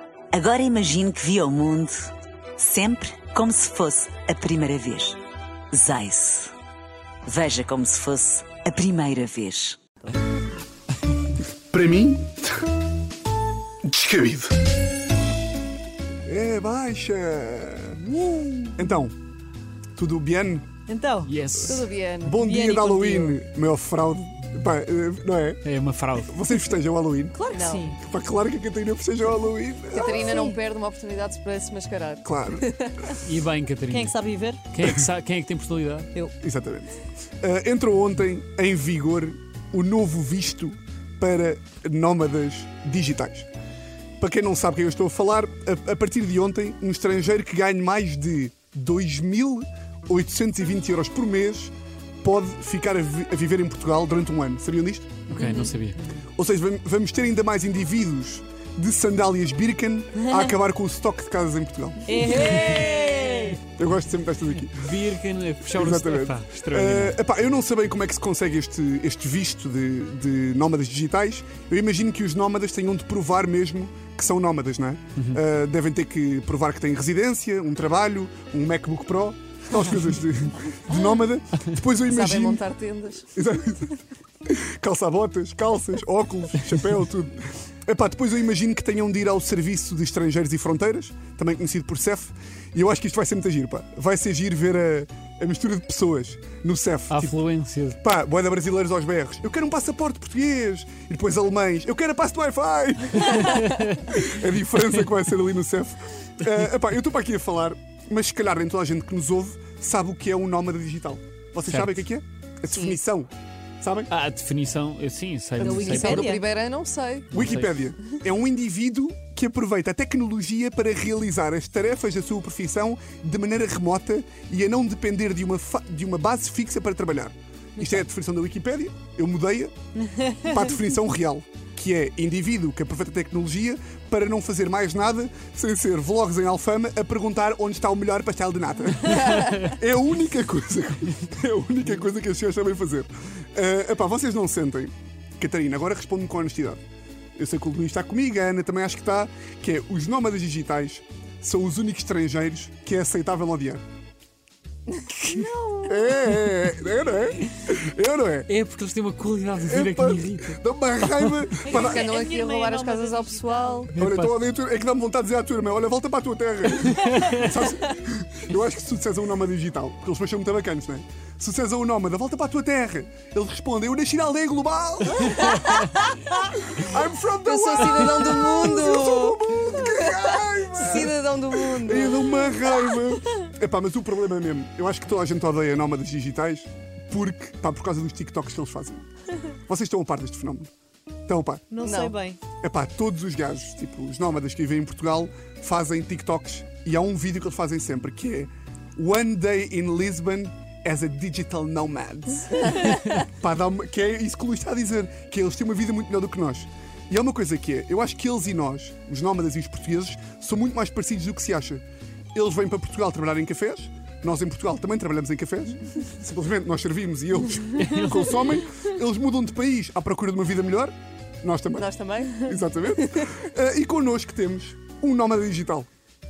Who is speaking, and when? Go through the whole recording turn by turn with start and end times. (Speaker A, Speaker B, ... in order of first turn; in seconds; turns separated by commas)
Speaker A: 0.3-5.2, Speaker A: 5.7-6.5, Speaker A: 7.2-9.8, Speaker B: 11.7-12.5, Speaker B: 13.8-14.5, Speaker B: 16.2-18.0, Speaker B: 18.8-19.1, Speaker B: 19.9-20.7, Speaker C: 20.9-21.3, Speaker D: 21.2-21.9, Speaker E: 21.6-22.4, Speaker B: 22.2-25.7, Speaker C: 22.4-23.4, Speaker D: 25.6-26.3, Speaker B: 26.2-27.4, Speaker C: 27.3-28.0, Speaker E: 27.5-27.9, Speaker B: 27.9-30.5, Speaker E: 29.9-33.2, Speaker C: 30.2-30.5, Speaker B: 32.2-32.9, Speaker D: 33.2-34.2, Speaker C: 33.9-34.6, Speaker D: 34.7-36.1, Speaker B: 36.4-43.5, Speaker B: 44.2-51.7, Speaker B: 52.2-55.4, Speaker D: 55.3-56.0, Speaker C: 55.3-56.2, Speaker B: 56.3-62.4, Speaker C: 62.1-63.6, Speaker D: 62.3-63.6, Speaker B: 63.8-65.0, Speaker D: 64.7-67.2, Speaker B: 65.7-82.6, Speaker E: 82.1-83.3, Speaker B: 83.3-83.9, Speaker B: 84.5-97.4, Speaker D: 97.1-98.0, Speaker B: 98.0-113.3, Speaker D: 103.2-104.0, Speaker D: 111.6-112.0, Speaker E: 112.7-113.0, Speaker B: 113.8-114.1, Speaker D: 114.1-116.3, Speaker E: 115.6-117.3, Speaker C: 115.6-116.4, Speaker B: 117.3-129.7, Speaker D: 117.3-117.8, Speaker C: 130.0-130.7, Speaker B: 130.4-146.8, Speaker B: 147.3-153.8, Speaker E: 155.0-155.9, Speaker B: 155.8-158.5, Speaker D: 158.5-161.6, Speaker B: 159.7-162.1, Speaker C: 161.6-163.9, Speaker E: 161.7-163.9, Speaker D: 163.9-164.4, Speaker B: 164.0-175.7, Speaker D: 166.8-167.5, Speaker B: 176.6-181.2, Speaker E: 177.4-182.2, Speaker C: 180.8-181.2, Speaker B: 181.7-190.7, Speaker B: 191.3-191.7, Speaker C: 191.7-192.4, Speaker E: 191.8-192.1, Speaker B: 192.6-211.8, Speaker B: 212.3-225.9, Speaker D: 217.8-218.4, Speaker E: 221.7-223.4